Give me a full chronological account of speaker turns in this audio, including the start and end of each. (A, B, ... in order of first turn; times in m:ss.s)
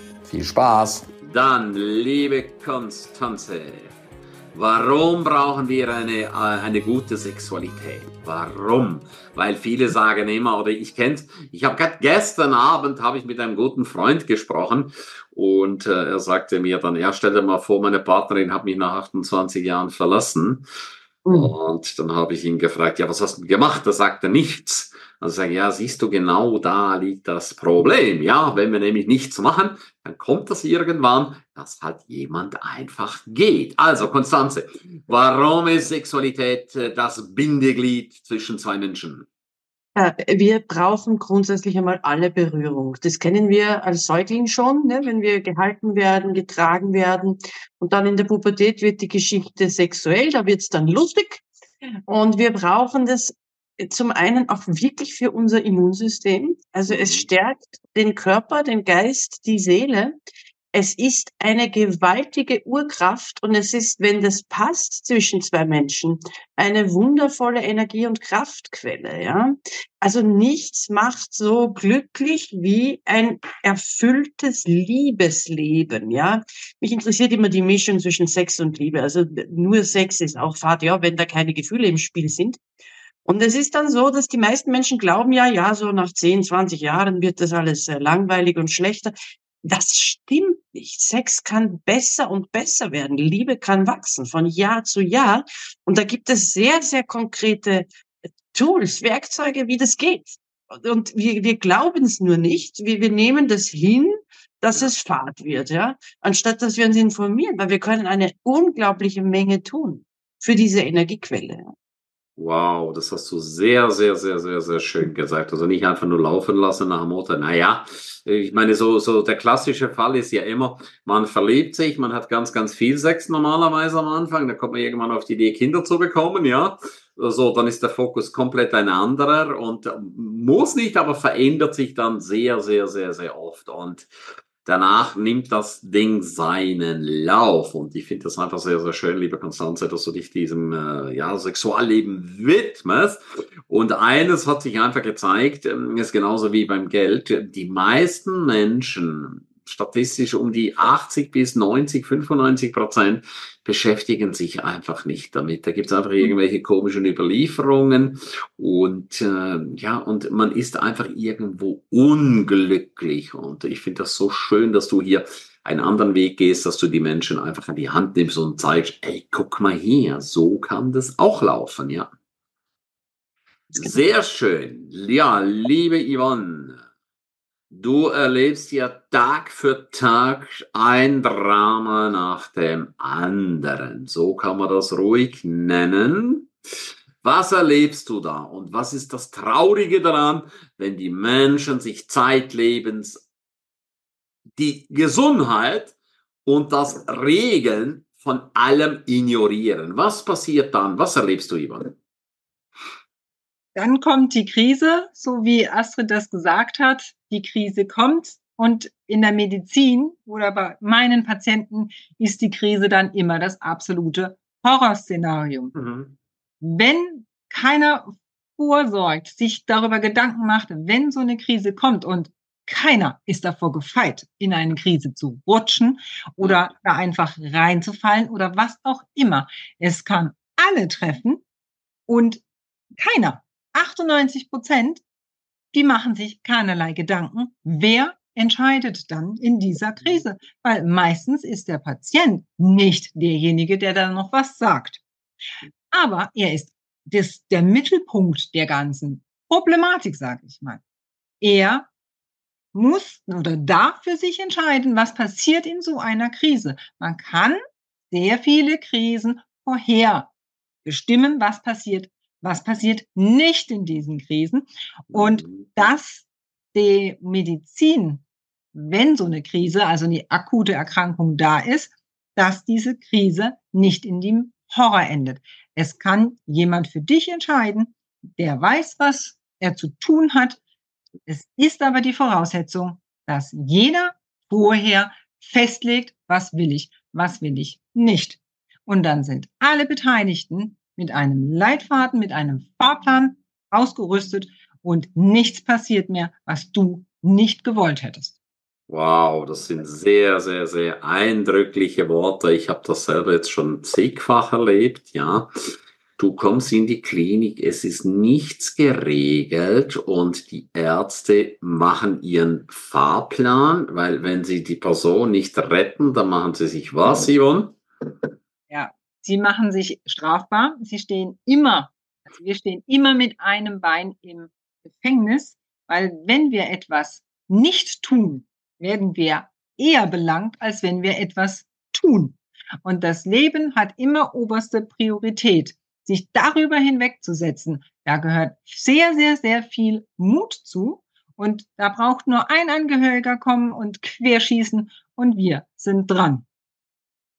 0:00.2-0:03.9 A
0:04.5-0:20.6 A
0:21.3-0:21.5 B
0:21.3-0:39.3 A
0:40.0-0:51.4 B
0:52.1-1:00.2 B
0:56.9-0:57.3 A
1:00.7-1:22.6 B
1:23.2-1:37.9 B
1:38.5-1:51.7 B
1:52.4-2:14.1 A
2:14.6-2:52.1 A
2:53.7-2:56.8 A
2:57.7-3:06.5 A
3:07.2-3:13.2 A
3:14.6-3:15.9 A
3:16.4-3:21.9 A
3:23.7-3:35.7 C
3:35.7-3:36.1 A
3:36.6-3:51.4 C
3:52.1-3:52.4 C
3:53.0-3:55.0 C
3:55.7-4:05.0 C
4:05.9-4:10.8 C
4:11.4-4:11.9 C
4:12.7-4:17.6 C
4:18.1-4:20.3 C
4:20.8-4:28.2 C
4:25.1-4:25.7 A
4:28.7-4:40.6 C
4:41.3-4:58.3 C
4:58.9-5:05.5 A
5:06.2-5:17.8 A
5:18.7-5:46.4 C